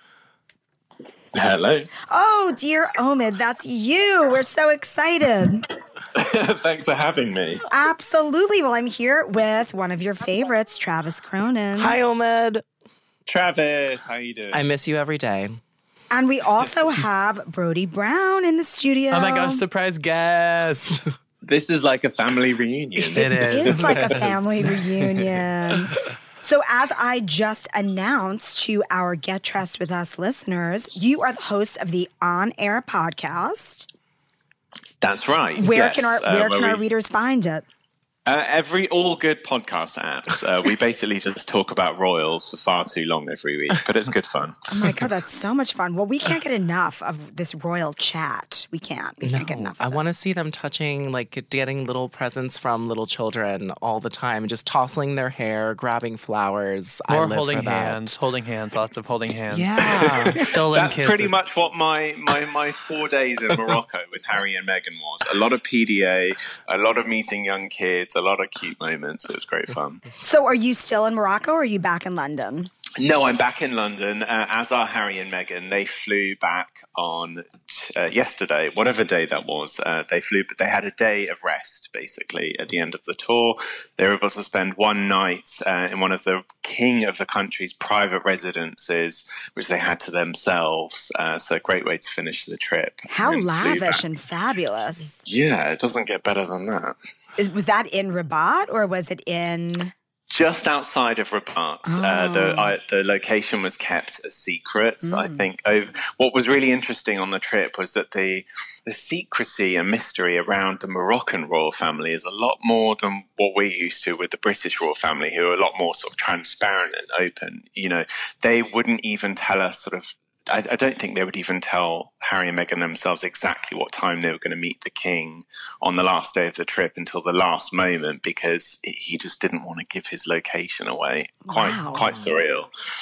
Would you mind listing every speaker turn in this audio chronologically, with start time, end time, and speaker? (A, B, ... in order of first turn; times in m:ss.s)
0:01.3-0:01.9 A
0:02.1-0:05.6 B
0:06.2-0:07.6 A
0:07.7-0:12.0 B
0:11.8-0:12.6 C
0:13.3-0:14.6 A
0:14.5-0:15.6 C
0:16.1-0:19.6 B
0:19.1-0:21.1 D
0:21.4-0:24.2 A
0:23.0-0:25.4 D
0:23.4-0:33.9 B
0:35.0-0:36.8 A
0:35.6-0:37.6 B
0:38.3-0:44.6 A
0:44.7-0:50.0 B
0:49.2-0:58.2 C
0:57.1-1:01.3 D
0:59.5-1:00.5 C
0:59.8-1:10.0 A
1:10.2-1:12.7 B
1:13.0-1:34.0 A
1:33.1-1:35.2 B
1:35.3-1:37.0 A
1:37.4-1:39.9 B
1:40.3-2:12.7 A
1:41.9-1:42.7 B
1:45.0-1:45.4 B
2:11.5-2:12.1 B